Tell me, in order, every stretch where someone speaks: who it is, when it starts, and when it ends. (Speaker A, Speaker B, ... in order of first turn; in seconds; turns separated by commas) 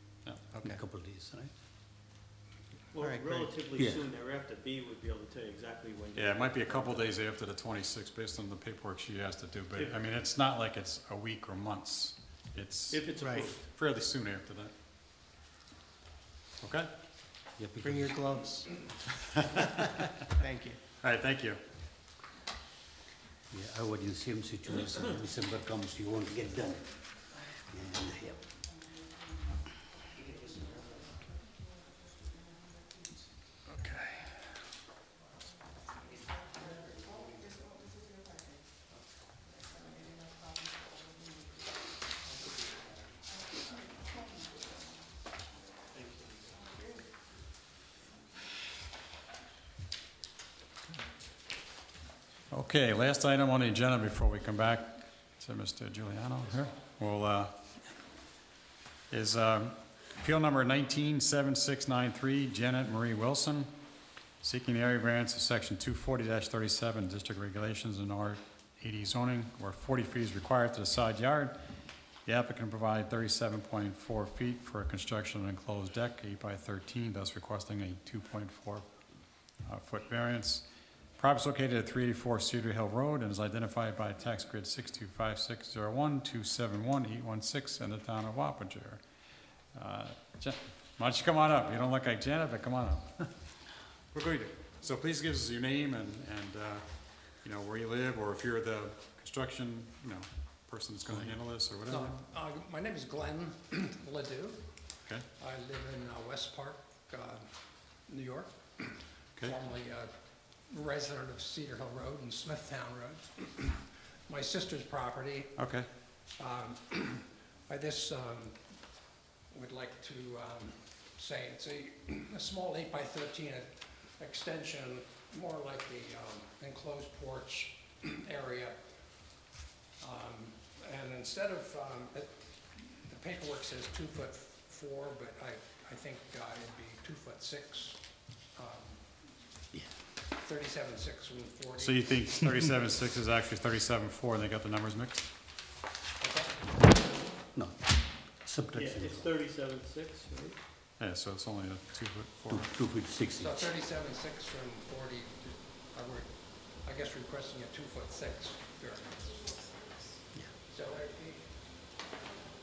Speaker A: 0.5-0.8, Speaker B: 0.6-1.5, Speaker C: 2.9-7.1, Speaker A: 3.0-3.5, Speaker B: 3.8-4.0, Speaker D: 6.2-14.7, Speaker C: 9.7-10.0, Speaker C: 12.9-13.6, Speaker A: 13.2-13.5, Speaker D: 16.6-16.9, Speaker B: 17.6-18.2, Speaker A: 17.8-18.7, Speaker D: 19.6-20.0, Speaker A: 20.4-20.8, Speaker D: 21.0-21.6, Speaker B: 23.5-26.9, Speaker B: 27.7-28.4, Speaker D: 52.5-57.5, Speaker D: 59.1-63.7, Speaker D: 64.4-71.6, Speaker D: 72.3-78.8, Speaker D: 79.7-80.7, Speaker D: 81.2-89.0, Speaker D: 89.8-93.3, Speaker D: 94.1-96.8, Speaker D: 97.4-102.2, Speaker E: 101.9-104.8, Speaker E: 105.4-107.5, Speaker E: 108.1-110.1, Speaker E: 110.7-115.7, Speaker D: 115.6-115.9, Speaker E: 116.4-118.7, Speaker E: 119.5-128.9, Speaker E: 130.0-138.0, Speaker E: 138.5-139.1, Speaker E: 140.3-142.3, Speaker D: 141.8-145.2, Speaker E: 146.2-146.7, Speaker B: 148.4-149.3, Speaker C: 148.8-150.6, Speaker D: 151.0-152.7, Speaker B: 152.5-153.7, Speaker E: 153.4-159.4, Speaker E: 160.7-161.5